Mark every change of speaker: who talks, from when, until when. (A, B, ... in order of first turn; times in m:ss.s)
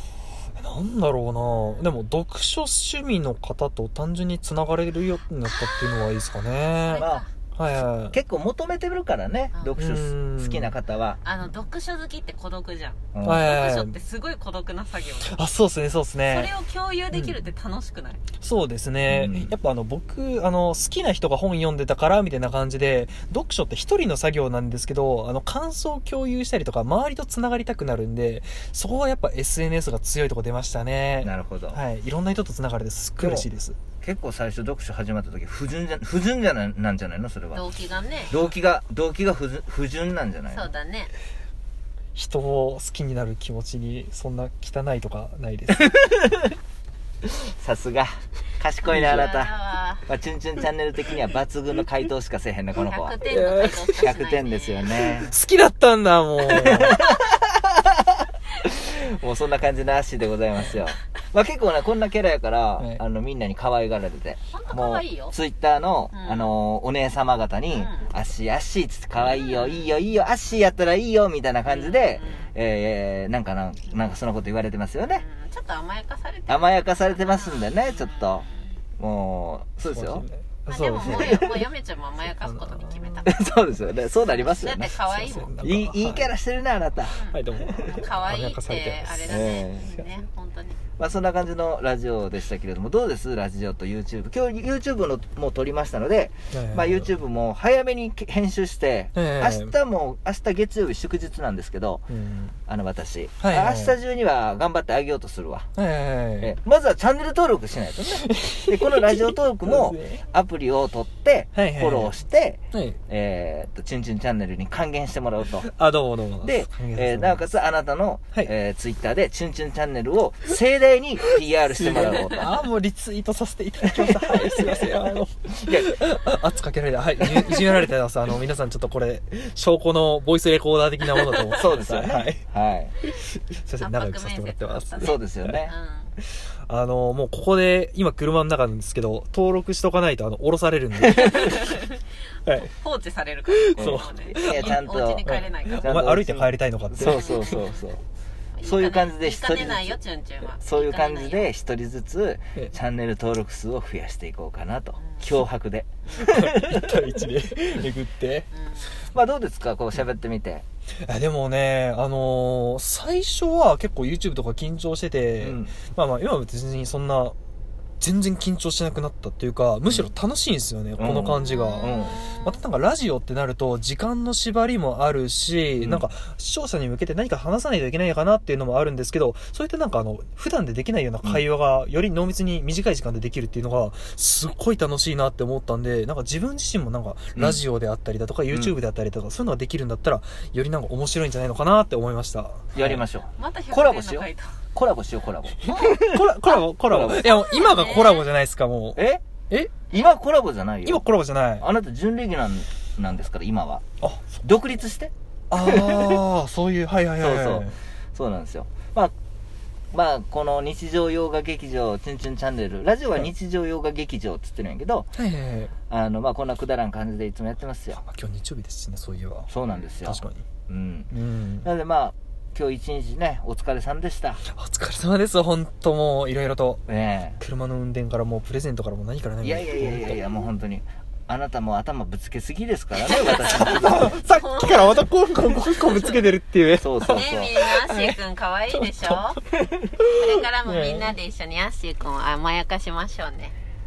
0:00.5-0:08.2 A
0:01.4-0:01.9 B
0:05.4-0:07.3 B
0:07.0-0:07.2 C
0:08.1-0:11.2 C
0:09.8-0:10.7 A
0:11.2-0:15.4 B
0:13.1-0:13.5 C
0:13.2-0:13.9 A
0:15.2-0:16.5 A
0:16.3-0:18.2 B
0:17.1-0:17.4 A
0:18.4-0:33.8 A
0:19.1-0:19.5 C
0:31.2-0:31.8 C
0:33.2-0:33.5 C
0:34.0-0:37.6 C
0:37.5-0:38.3 B
0:38.3-0:40.7 C
0:40.5-0:41.1 B
0:42.1-0:45.9 A
0:45.8-0:46.5 C
0:47.2-0:49.5 C
0:48.9-0:49.3 A
0:48.9-0:50.0 B
0:50.0-0:53.2 C
0:52.8-0:54.9 B
0:53.3-0:54.0 A
0:54.0-0:55.3 C
0:55.1-0:57.0 A
0:56.5-0:57.7 C
0:58.5-1:15.2 C
1:04.5-1:05.4 B
1:06.1-1:06.5 B
1:07.7-1:08.1 B
1:09.3-1:09.9 B
1:11.6-1:12.5 B
1:15.0-1:18.7 B
1:16.5-1:18.5 C
1:19.0-1:20.2 C
1:19.9-1:21.5 A
1:20.7-1:23.4 B
1:21.0-1:21.6 C
1:22.3-1:23.4 A
1:23.2-1:24.9 C
1:24.4-1:25.6 B
1:24.8-1:26.3 A
1:25.6-1:27.2 C
1:27.1-1:30.8 B
1:27.1-1:29.8 A
1:29.2-1:29.9 C
1:31.0-1:42.1 C
1:36.5-1:37.1 A
1:39.1-1:39.7 A
1:42.1-1:42.6 A
1:42.7-1:45.7 C
1:43.4-1:43.9 A
1:45.8-1:46.5 A
1:46.4-1:55.7 C
1:48.2-1:50.2 A
1:51.5-1:52.1 A
1:52.7-1:53.0 A
1:55.6-1:57.4 A
1:56.4-2:02.5 C
2:01.7-2:12.4 A
2:03.9-2:05.0 C
2:05.6-2:05.9 C
2:07.3-2:07.6 C
2:11.5-2:12.9 C
2:13.0-2:15.6 A
2:13.8-2:16.1 B
2:15.0-2:15.7 C
2:16.2-2:21.8 A
2:21.2-2:22.0 B
2:22.5-2:25.9 B
2:23.5-2:27.6 A
2:23.8-2:28.0 C
2:27.0-2:27.8 B
2:28.5-2:31.5 B
2:28.6-2:30.0 C
2:30.6-2:37.0 C
2:35.0-2:35.4 B
2:36.0-2:36.3 B
2:36.2-2:38.5 A
2:38.5-2:39.1 B
2:39.1-2:40.6 C
2:41.0-2:47.4 A
2:45.4-2:45.8 C
2:48.0-3:13.0 A
2:49.8-2:50.1 C
2:51.0-2:52.2 C
2:51.4-2:52.6 B
2:55.8-2:56.1 C
3:07.4-3:07.6 C
3:08.5-3:08.8 C
3:12.7-3:17.3 C
3:13.4-3:14.5 B
3:15.7-3:19.7 A
3:17.1-3:18.3 B
3:19.0-3:19.2 C
3:19.9-3:21.0 C
3:20.8-3:21.6 A
3:21.6-3:23.8 C
3:24.0-3:24.4 A
3:24.4-3:26.2 C
3:25.5-3:27.8 A
3:27.2-3:29.1 C
3:29.9-3:35.1 C
3:35.1-3:35.7 A
3:35.9-3:38.0 C
3:37.9-3:39.5 A
3:39.5-3:44.4 C
3:39.7-3:40.0 B
3:40.0-3:40.4 A
3:41.1-3:41.7 A
3:44.4-3:46.8 A
3:46.9-3:47.4 C
3:47.4-3:50.3 A
3:49.4-3:54.2 C
3:53.4-3:55.1 B
3:53.6-3:58.2 A
3:55.8-3:56.2 B
3:56.8-3:57.7 C
3:57.0-3:59.4 B
3:58.7-3:59.2 A
4:00.0-4:01.1 A
4:00.1-4:03.5 B